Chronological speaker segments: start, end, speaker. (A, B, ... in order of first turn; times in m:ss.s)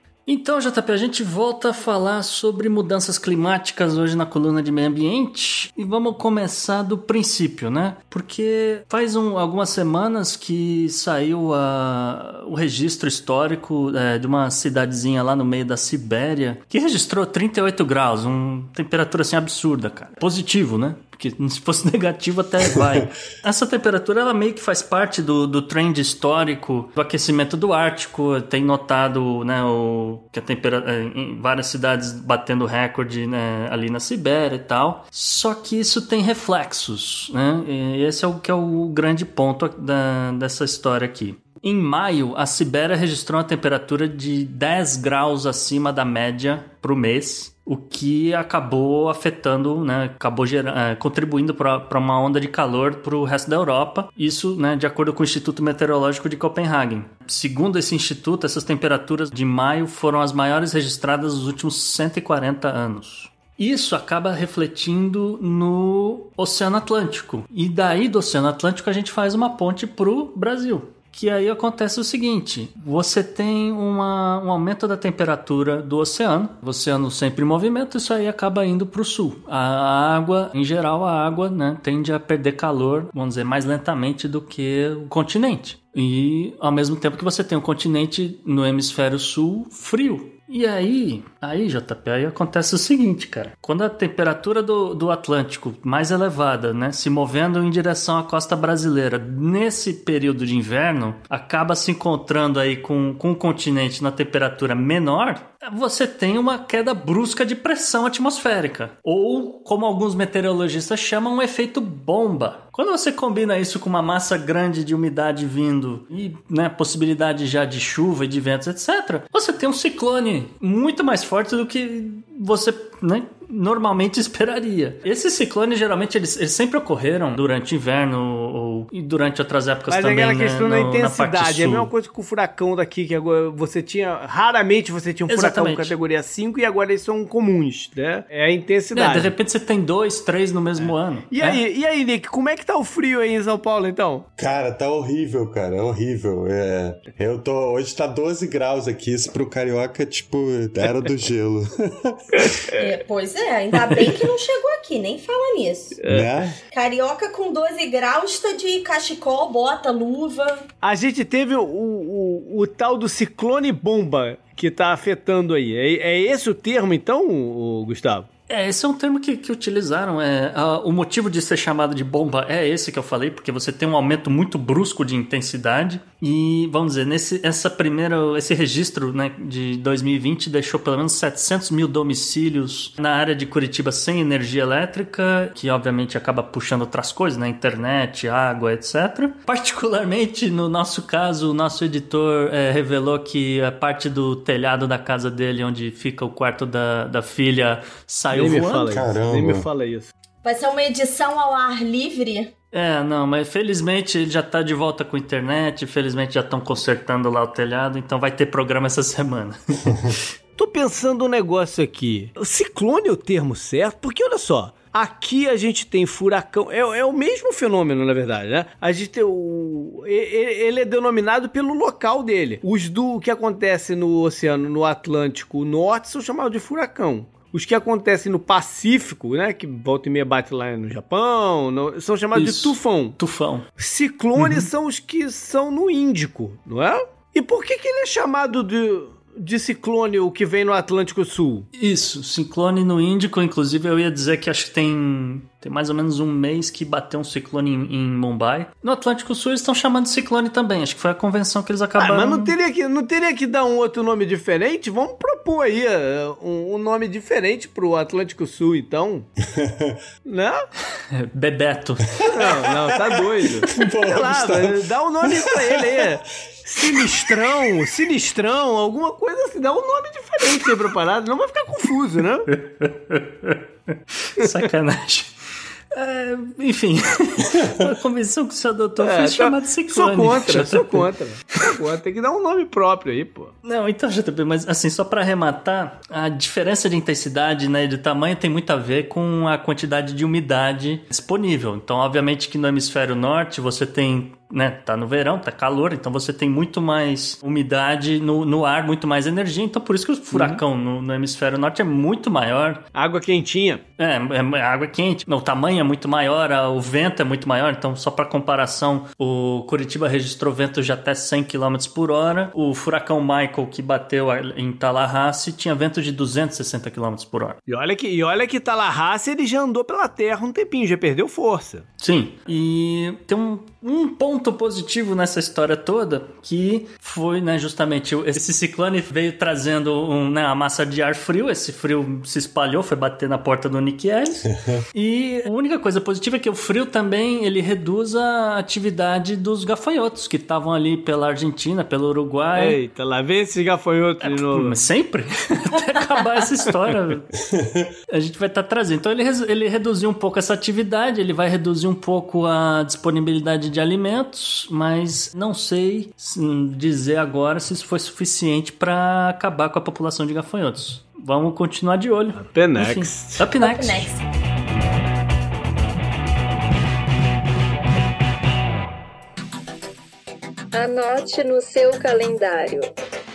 0:00.3-2:11.9 A
2:09.9-2:19.3 B
2:15.3-2:15.9 A
2:18.9-2:21.6 A
2:20.8-2:24.3 B
2:24.4-2:32.6 C
2:32.3-2:32.9 B
2:32.8-2:36.0 D
2:36.0-2:36.5 B
2:36.1-2:36.6 C
2:36.7-2:40.6 D
2:40.8-2:48.3 B
2:48.5-3:18.9 A
3:18.3-3:20.1 B
3:18.9-3:19.7 C
3:20.4-3:22.5 D
3:22.7-3:30.1 A
3:30.6-3:53.2 B
3:52.4-3:53.7 A
3:53.8-4:01.7 B
3:54.4-3:54.7 A
4:01.8-4:12.6 A
4:12.0-4:19.3 B
4:19.4-4:20.0 C
4:20.2-4:20.7 B
4:21.1-4:22.2 A
4:22.2-4:32.5 B
4:22.4-4:23.1 C
4:23.7-4:25.9 C
4:26.8-4:27.8 C
4:32.5-4:35.3 A
4:35.9-4:41.1 A
4:39.0-4:43.5 B
4:43.6-5:02.8 A
5:00.3-5:00.6 B
5:02.9-5:03.8 B
5:04.0-5:17.6 A
5:17.7-5:21.9 B
5:22.0-5:42.8 A
5:34.6-5:34.8 C
5:42.6-5:44.8 B
5:44.2-5:47.3 A
5:47.5-5:47.9 C
5:48.1-6:04.1 A
6:02.4-6:03.4 B
6:03.6-6:04.2 D
6:10.7-6:12.9 E